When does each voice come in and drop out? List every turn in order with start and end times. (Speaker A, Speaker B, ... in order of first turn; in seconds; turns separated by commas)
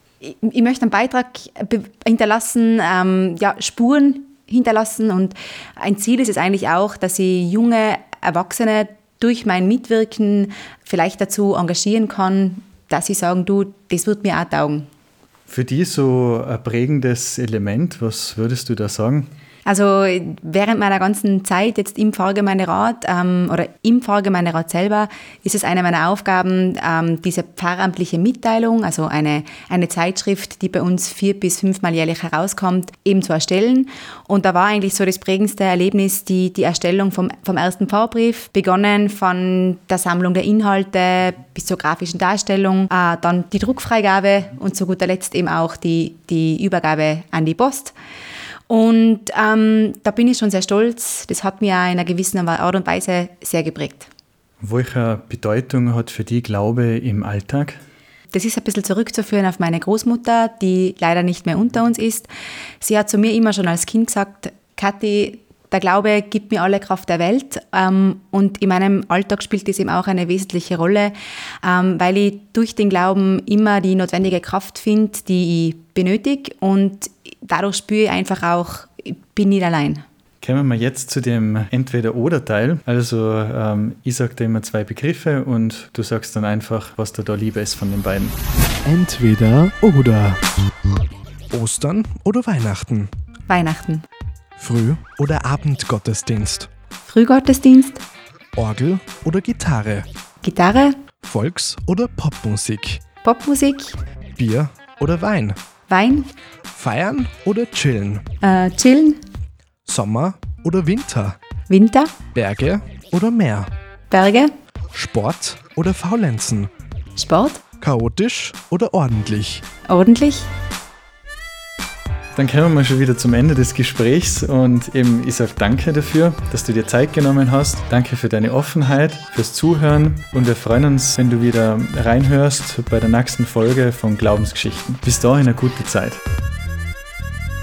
Speaker A: 0.2-14.8, Speaker B: 15.5-19.3, Speaker A: 19.6-47.9, Speaker A: 48.7-54.1, Speaker B: 54.6-57.8, Speaker A: 58.3-62.3, Speaker A: 62.8-80.0, Speaker B: 80.4-88.3, Speaker C: 88.8-90.4, Speaker C: 91.5-93.1, Speaker A: 93.5-94.0, Speaker C: 94.6-96.7, Speaker A: 97.0-98.0, Speaker C: 98.5-100.1, Speaker A: 100.4-101.0, Speaker C: 101.2-103.0, Speaker A: 103.2-104.0, Speaker C: 104.3-105.6, Speaker A: 105.9-106.3, Speaker C: 106.7-108.2, Speaker A: 108.4-109.2, Speaker C: 109.8-111.4, Speaker A: 111.7-112.2, Speaker C: 112.3-113.7, Speaker A: 114.1-114.5, Speaker C: 114.9-116.7, Speaker A: 117.1-117.6, Speaker C: 117.8-119.6, Speaker A: 119.9-120.5, Speaker B: 122.3-136.2